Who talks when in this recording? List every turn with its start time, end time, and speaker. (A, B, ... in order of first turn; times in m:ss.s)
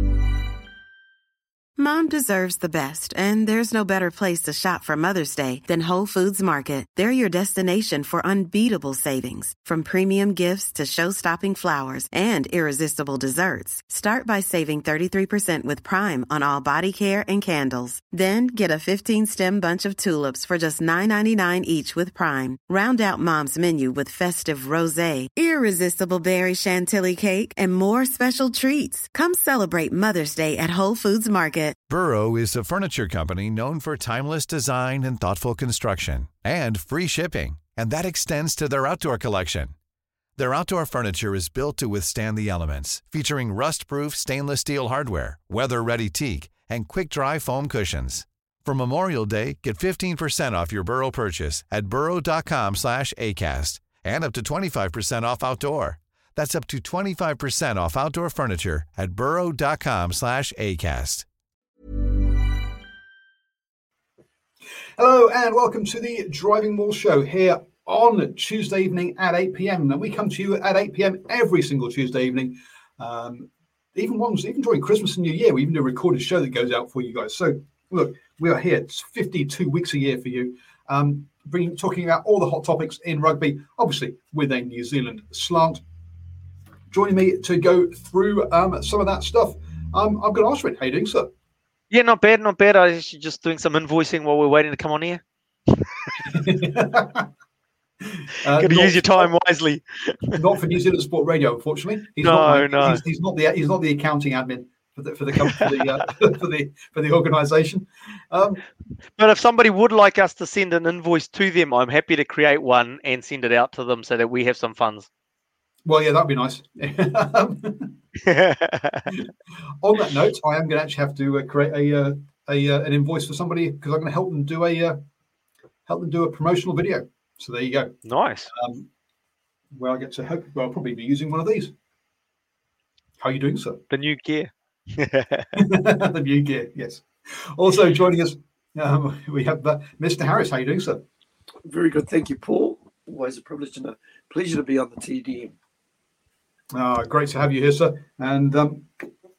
0:01.8-0:31.8 A
0:31.9-0:39.7 B
0:40.4-1:01.3 B
1:05.0-1:25.8 C
1:26.9-1:31.3 C
1:31.9-1:35.2 D
1:35.8-1:36.2 D
1:36.3-1:37.3 C
1:38.2-1:39.3 C
1:38.6-1:40.4 D
1:40.4-1:48.6 C
1:42.2-1:43.0 D
1:45.6-1:45.9 D
1:49.2-1:55.1 D
1:55.8-1:58.0 C
1:58.2-1:59.1 D
1:59.8-2:05.0 C
2:05.9-2:08.0 C
2:08.1-2:08.5 D
2:08.5-2:08.9 C
2:09.7-2:11.7 C
2:13.2-2:13.8 C
2:13.9-2:15.5 D
2:15.6-2:21.0 C
2:21.7-2:25.6 E
2:26.7-2:28.9 C